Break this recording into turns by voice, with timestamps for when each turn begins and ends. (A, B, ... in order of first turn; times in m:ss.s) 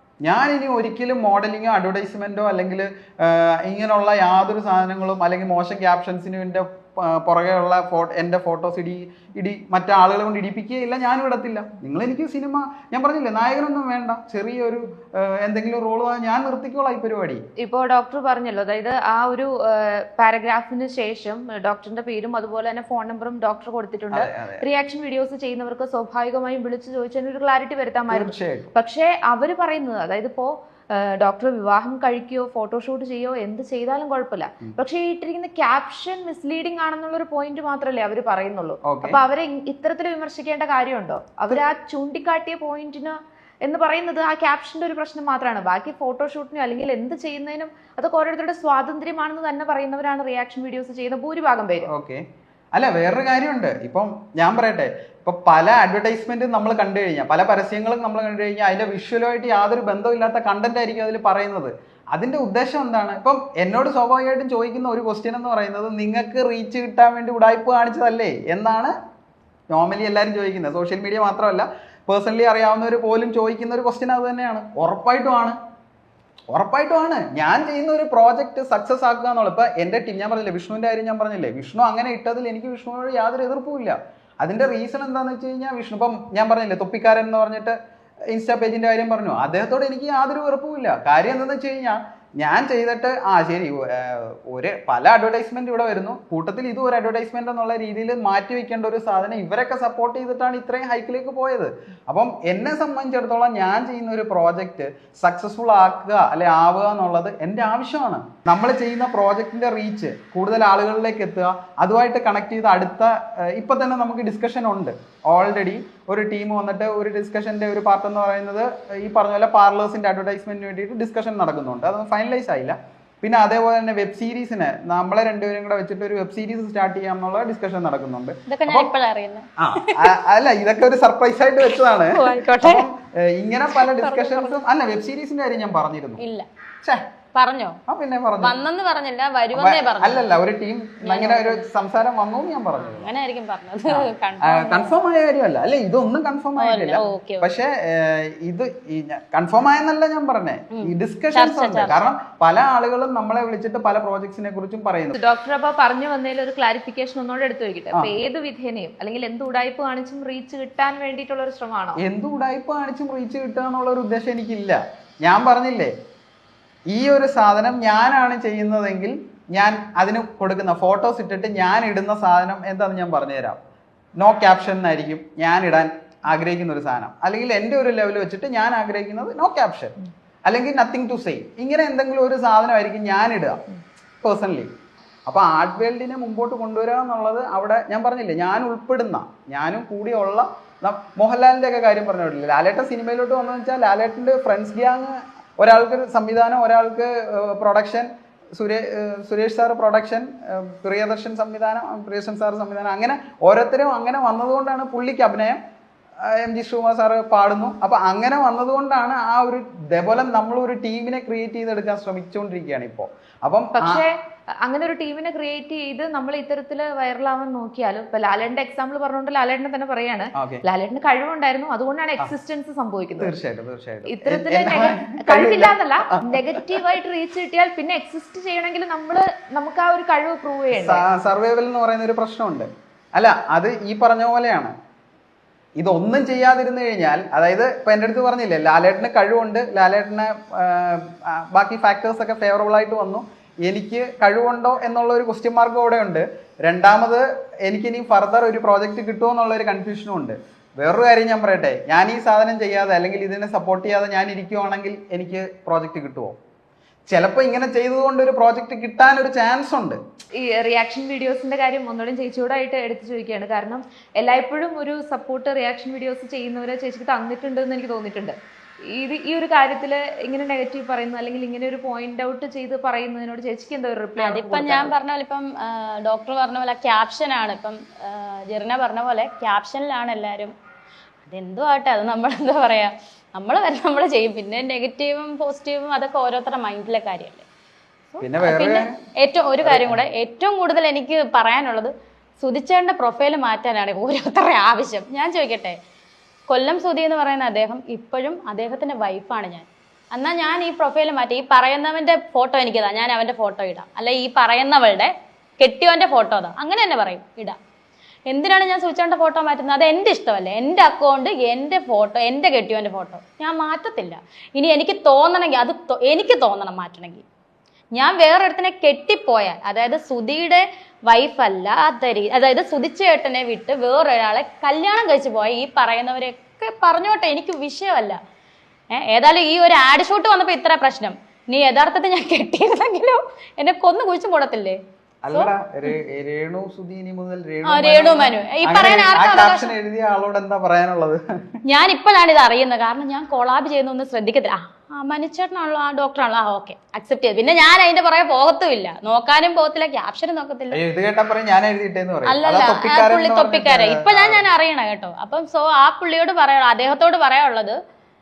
0:00.2-0:17.4 A
0:17.6-0:51.9 B
0:24.1-0:24.6 A
0:28.1-0:28.7 A
0:38.8-0:39.2 A
0:51.9-1:08.9 A
1:09.7-1:15.6 A
1:16.5-1:27.8 A
1:28.3-2:08.9 A
2:08.5-2:10.1 C
2:09.6-2:16.2 A
2:12.1-2:12.9 C
2:13.8-2:14.6 C
2:16.2-2:16.5 C
2:17.3-2:17.8 C
2:17.9-2:18.6 A
2:18.4-2:20.3 C
2:19.5-2:23.1 A
2:21.0-2:21.6 C
2:22.8-2:24.9 C
2:23.9-2:35.2 A
2:26.6-2:27.5 C
2:30.7-2:32.1 C
2:35.1-2:42.0 B
2:42.0-2:45.9 A
2:46.9-2:53.6 A
2:54.2-3:03.6 A
3:04.2-3:04.7 A
3:05.2-3:25.6 A
3:26.2-3:34.0 A
3:33.7-3:43.3 B
3:40.3-3:40.6 A
3:43.2-3:46.9 A
3:44.1-3:51.0 B
3:50.7-3:54.7 A
3:55.8-4:16.4 A
4:17.1-4:20.0 A
4:20.4-4:28.4 B
4:28.9-4:34.9 B
4:34.2-4:40.5 C
4:41.2-4:47.4 C
4:48.1-4:55.8 C
4:48.2-4:48.9 A
4:49.6-4:50.0 A
4:56.5-5:07.6 C
5:08.3-5:17.2 C
5:18.0-5:28.2 C
5:28.9-5:34.8 C
5:35.2-5:41.6 A
5:35.3-5:35.9 C
5:37.6-5:39.7 C
5:41.6-5:50.8 C
5:50.7-5:54.4 A
5:52.2-5:57.8 C